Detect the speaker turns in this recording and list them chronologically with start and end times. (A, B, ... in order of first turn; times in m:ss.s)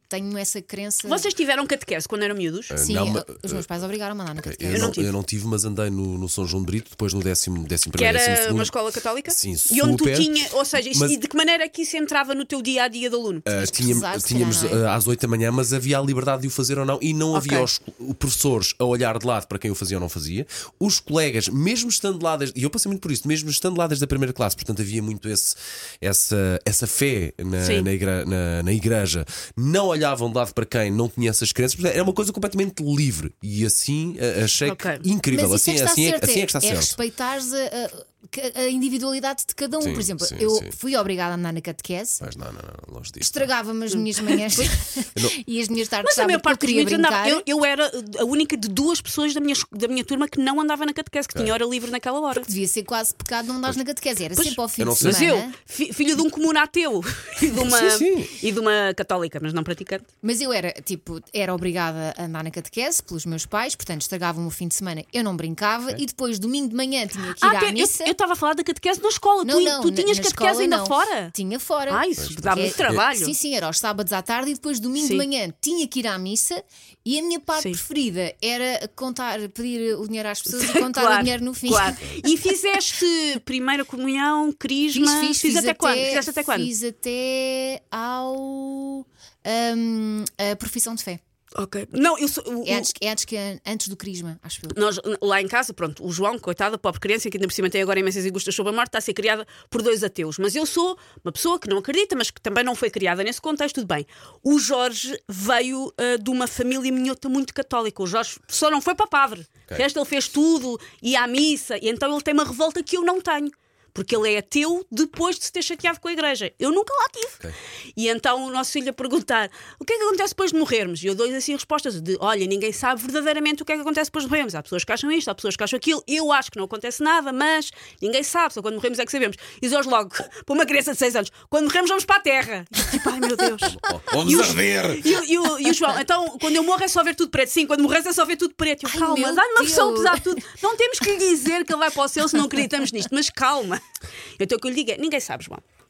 0:00.1-0:01.3 A
0:01.0-0:02.8 B
0:02.7-0:03.7 C
0:02.8-0:05.0 A
0:04.4-0:08.7 C
0:04.7-0:05.1 B
0:08.0-0:13.5 B
0:09.3-0:10.3 C
0:10.9-0:11.2 C
0:13.5-0:37.0 C
0:13.6-0:14.8 A
0:17.3-0:17.7 B
0:27.6-0:27.9 B
0:34.6-0:35.0 B
0:35.3-0:42.2 A
0:39.8-0:40.8 C
0:42.2-0:43.5 C
0:43.2-0:47.5 A
0:43.9-0:44.7 B
0:46.0-0:52.5 B
0:52.4-0:55.6 A
0:54.4-1:00.1 B
0:54.8-0:55.2 C
0:57.6-0:58.3 C
1:00.2-1:08.1 A
1:07.4-1:11.3 B
1:09.4-1:22.4 A
1:11.9-1:13.3 B
1:12.2-1:13.0 C
1:15.0-1:15.3 B
1:20.5-1:26.7 B
1:21.9-1:22.2 C
1:24.9-1:31.2 A
1:31.6-1:32.9 B
1:32.6-1:34.8 A
1:34.7-1:57.4 B
1:58.0-2:23.8 B
2:13.6-2:15.1 C
2:18.9-2:20.4 A
2:24.4-2:25.6 B